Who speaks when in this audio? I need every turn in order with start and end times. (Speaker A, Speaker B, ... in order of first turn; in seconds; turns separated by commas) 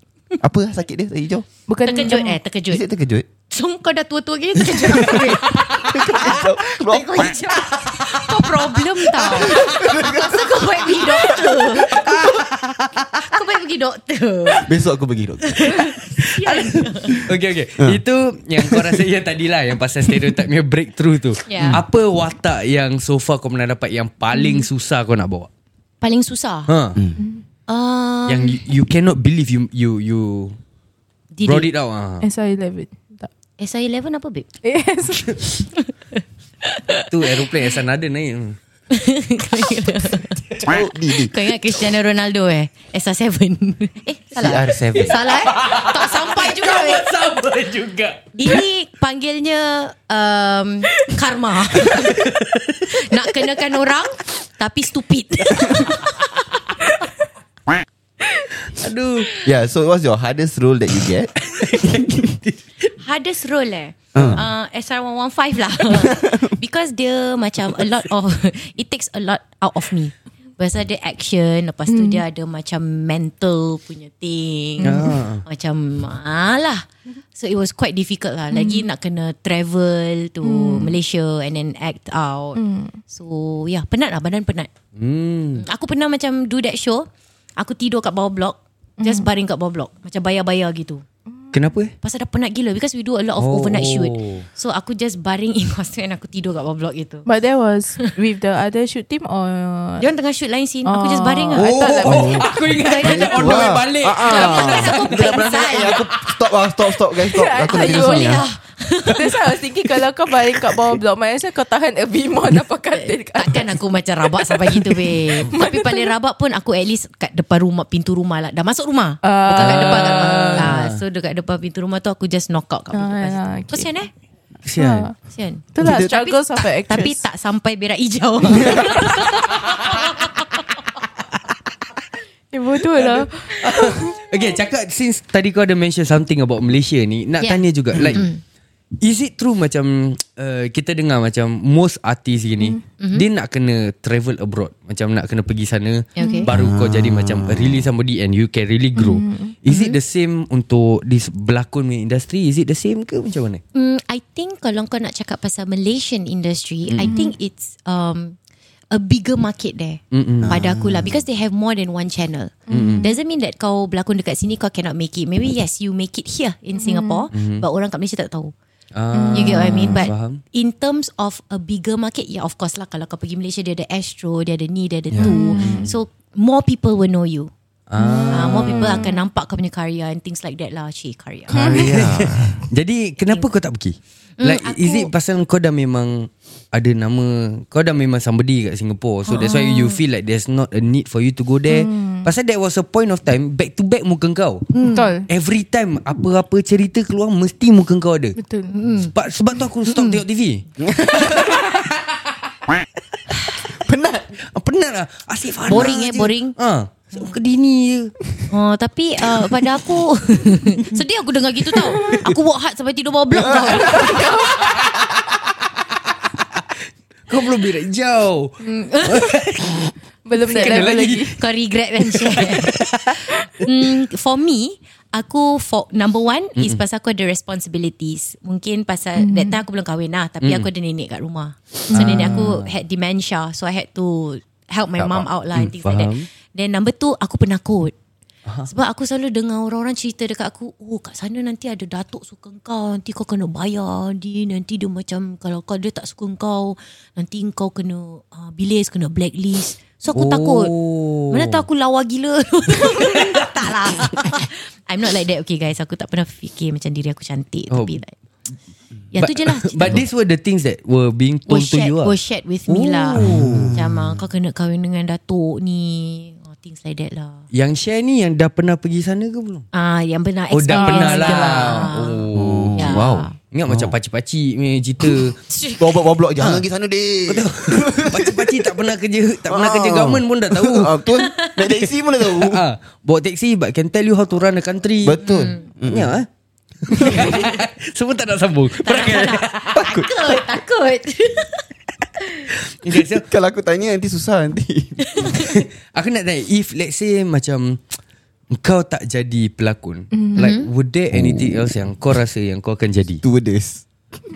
Speaker A: 0.4-1.5, Speaker B: 1.7-2.4, Speaker C: 1.9-2.9, Speaker A: 2.7-3.3, Speaker C: 3.5-12.0, Speaker A: 4.6-7.7, Speaker A: 9.2-12.5, Speaker D: 11.9-13.1, Speaker C: 13.2-14.7, Speaker A: 14.6-15.8, Speaker C: 15.6-17.2, Speaker D: 16.2-25.5, Speaker A: 18.6-19.0, Speaker C: 21.5-21.8, Speaker A: 21.6-21.8, Speaker B: 24.4-24.6, Speaker C: 26.0-26.7, Speaker D: 26.7-27.0, Speaker C: 27.7-28.6, Speaker D: 28.3-30.6, Speaker C: 31.3-31.7, Speaker D: 31.4-32.3, Speaker B: 32.2-33.3, Speaker C: 33.6-34.5, Speaker B: 34.6-35.5, Speaker C: 36.6-37.3, Speaker D: 37.1-38.6, Speaker C: 38.9-47.1, Speaker A: 40.6-41.3, Speaker A: 44.4-45.2, Speaker D: 45.1-48.6, Speaker C: 48.4-52.3, Speaker D: 51.9-52.9, Speaker C: 52.9-56.3, Speaker D: 58.7-59.3, Speaker A: 59.4-62.2, Speaker D: 61.4-62.6, Speaker C: 63.0-84.7, Speaker A: 64.1-64.5, Speaker A: 66.0-66.5, Speaker B: 71.9-72.2, Speaker B: 74.8-75.2, Speaker D: 74.8-75.4, Speaker B: 78.5-78.9, Speaker B: 80.4-81.0, Speaker B: 82.6-83.0, Speaker D: 85.0-85.6, Speaker C: 85.6-87.1, Speaker C: 87.6-91.0, Speaker B: 89.0-89.3, Speaker D: 91.5-91.9, Speaker C: 92.0-97.3, Speaker D: 93.4-94.5, Speaker B: 97.3-100.0, Speaker C: 100.0-106.0, Speaker B: 100.9-102.5, Speaker D: 101.5-106.3, Speaker A: 102.0-102.5, Speaker A: 103.0-108.4, Speaker B: 107.2-108.5, Speaker C: 107.6-109.5, Speaker B: 109.1-113.8, Speaker C: 112.9-124.1, Speaker B: 114.4-116.1, Speaker B: 119.2-120.7, Speaker D: 119.5-121.0, Speaker B: 122.9-123.9, Speaker D: 124.7-125.1, Speaker B: 124.8-125.1, Speaker C: 125.3-130.3, Speaker B: 125.7-127.2, Speaker A: 125.8-126.1, Speaker B: 132.5-134.2, Speaker D: 133.0-138.3, Speaker C: 137.4-138.4, Speaker A: 137.9-138.2, Speaker D: 139.0-153.6, Speaker C: 143.0-143.2, Speaker C: 146.2-146.5, Speaker B: 146.2-146.4, Speaker A: 146.5-147.9, Speaker B: 149.0-149.5, Speaker C: 149.7-150.0, Speaker C: 153.7-158.4, Speaker B: 157.0-157.3, Speaker C: 158.9-168.5, Speaker D: 160.1-160.6, Speaker A: 160.4-161.2, Speaker B: 162.7-163.1, Speaker D: 162.7-163.1, Speaker B: 166.8-167.3, Speaker D: 167.3-167.6, Speaker D: 168.9-170.4, Speaker B: 169.1-170.0, Speaker C: 169.3-177.5, Speaker A: 175.1-175.7, Speaker B: 175.2-175.9, Speaker D: 175.6-175.9, Speaker D: 177.9-179.1, Speaker B: 178.0-179.2, Speaker C: 178.3-181.8, Speaker A: 181.5-182.7, Speaker B: 181.5-181.9, Speaker D: 181.6-194.7, Speaker C: 184.4-185.1, Speaker C: 189.3-190.0, Speaker B: 191.7-192.3, Speaker C: 194.7-195.1, Speaker B: 194.9-195.3, Speaker D: 195.3-198.4, Speaker B: 198.4-198.7, Speaker C: 198.7-199.1, Speaker D: 199.1-200.6, Speaker C: 199.9-200.2, Speaker A: 200.8-201.8, Speaker D: 201.2-202.1, Speaker A: 203.7-204.3, Speaker D: 204.6-208.2, Speaker C: 205.7-206.6, Speaker C: 208.5-214.4, Speaker A: 213.3-215.1, Speaker B: 213.8-214.6, Speaker D: 217.3-221.4, Speaker C: 218.6-219.4, Speaker B: 220.3-221.4, Speaker C: 220.4-237.9, Speaker D: 222.1-223.7, Speaker B: 229.2-229.6, Speaker D: 230.4-230.7, Speaker D: 231.9-232.7, Speaker B: 231.9-232.3, Speaker D: 235.0-236.2, Speaker C: 238.7-250.7, Speaker D: 250.2-251.6, Speaker C: 251.3-258.1, Speaker D: 257.7-258.0, Speaker C: 259.1-260.1, Speaker D: 259.2-262.1, Speaker C: 261.5-267.4, Speaker D: 262.7-263.7, Speaker A: 263.2-264.2, Speaker D: 267.5-269.7, Speaker C: 269.7-273.3, Speaker D: 270.5-275.4, Speaker B: 270.7-271.9, Speaker A: 272.3-273.9, Speaker C: 275.5-276.0, Speaker A: 275.8-278.8, Speaker D: 276.4-276.6, Speaker D: 277.3-281.0, Speaker A: 279.5-282.6, Speaker C: 281.2-281.6, Speaker D: 282.3-285.2, Speaker A: 285.0-286.2, Speaker C: 285.2-285.7, Speaker D: 285.9-286.3, Speaker D: 286.9-289.8, Speaker A: 286.9-287.4, Speaker C: 287.0-287.5, Speaker C: 288.8-291.6, Speaker A: 289.8-290.4, Speaker D: 292.7-293.3, Speaker A: 293.1-295.1, Speaker C: 295.1-295.6, Speaker D: 295.3-297.8, Speaker D: 298.5-303.2, Speaker B: 300.1-300.4, Speaker C: 300.4-300.7, Speaker A: 301.1-301.7, Speaker A: 303.2-303.9